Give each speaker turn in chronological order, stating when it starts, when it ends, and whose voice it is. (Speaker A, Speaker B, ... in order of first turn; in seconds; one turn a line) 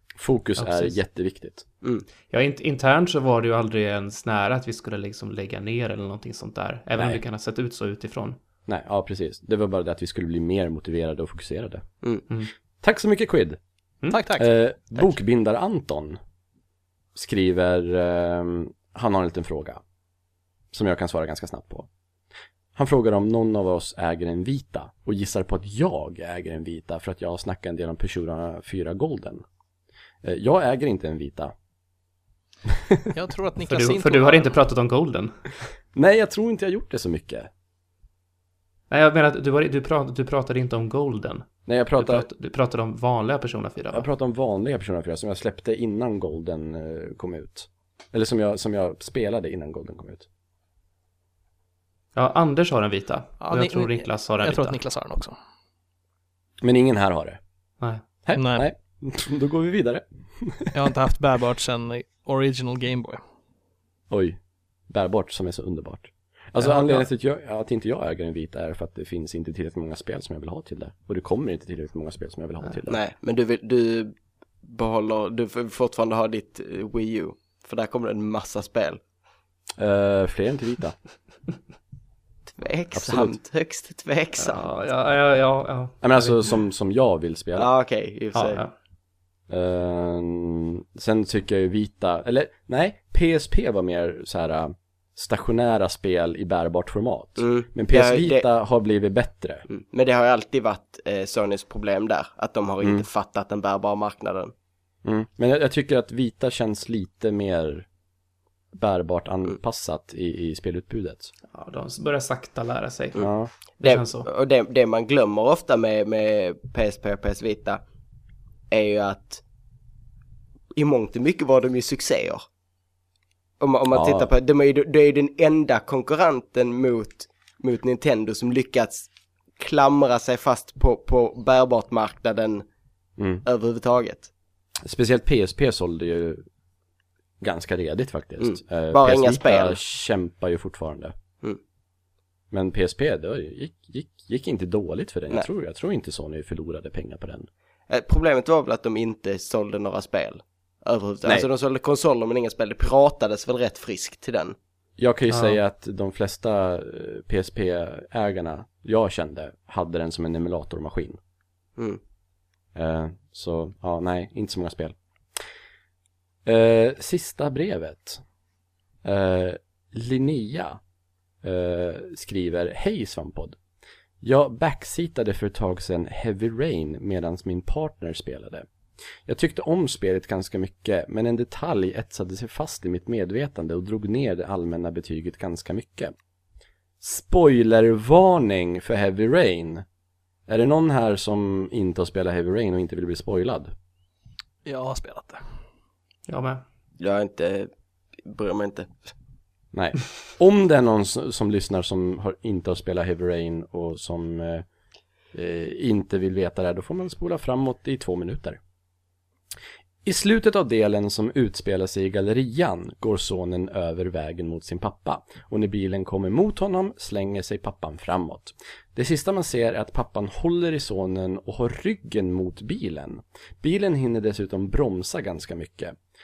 Speaker A: 0.2-1.6
Speaker B: 0.6-1.0
Speaker B: 2.3-8.4
Speaker A: 8.7-11.8
Speaker A: 12.8-13.6
Speaker C: 14.1-15.0
Speaker A: 14.3-16.2
Speaker A: 17.1-19.8
Speaker A: 20.7-21.9
Speaker A: 22.8-29.4
Speaker A: 30.2-31.5
Speaker A: 32.7-33.0
Speaker C: 33.1-34.6
Speaker B: 33.7-35.5
Speaker A: 35.9-37.5
Speaker B: 38.9-44.1
Speaker A: 41.7-42.3
Speaker A: 43.9-50.3
Speaker B: 52.2-54.8
Speaker C: 53.4-55.4
Speaker A: 56.6-57.4
Speaker A: 58.2-60.7
Speaker C: 58.4-58.6
Speaker C: 60.7-63.2
Speaker A: 64.1-73.0
Speaker B: 66.6-67.1
Speaker D: 72.9-79.0
Speaker A: 79.8-81.0
Speaker D: 82.5-84.7
Speaker A: 82.9-83.3
Speaker B: 84.4-86.6
Speaker A: 86.0-87.7
Speaker D: 87.6-88.6
Speaker B: 88.3-88.7
Speaker A: 89.5-99.7
Speaker D: 97.4-98.5
Speaker D: 99.7-104.5
Speaker A: 105.0-107.9
Speaker A: 108.7-111.3
Speaker B: 111.5-113.3
Speaker A: 113.2-113.5
Speaker B: 113.8-114.3
Speaker D: 113.8-117.8
Speaker D: 118.7-119.4
Speaker D: 120.8-122.4
Speaker D: 123.6-132.7
Speaker A: 123.9-124.3
Speaker A: 133.2-133.4
Speaker D: 133.4-134.3
Speaker A: 134.8-136.4
Speaker A: 137.4-141.2
Speaker D: 138.4-139.8
Speaker A: 142.5-147.5
Speaker D: 147.9-154.6
Speaker A: 155.0-161.2
Speaker B: 155.3-155.6
Speaker A: 162.8-165.0
Speaker A: 166.4-168.2
Speaker A: 169.0-170.8
Speaker A: 171.4-173.6
Speaker A: 174.2-178.7
Speaker A: 179.3-186.1
Speaker A: 187.0-189.8
Speaker A: 190.5-193.7
Speaker C: 194.7-195.6
Speaker B: 196.3-196.6
Speaker D: 197.0-197.7
Speaker D: 198.2-199.1
Speaker A: 199.7-204.7
Speaker A: 205.3-208.6
Speaker A: 210.1-226.0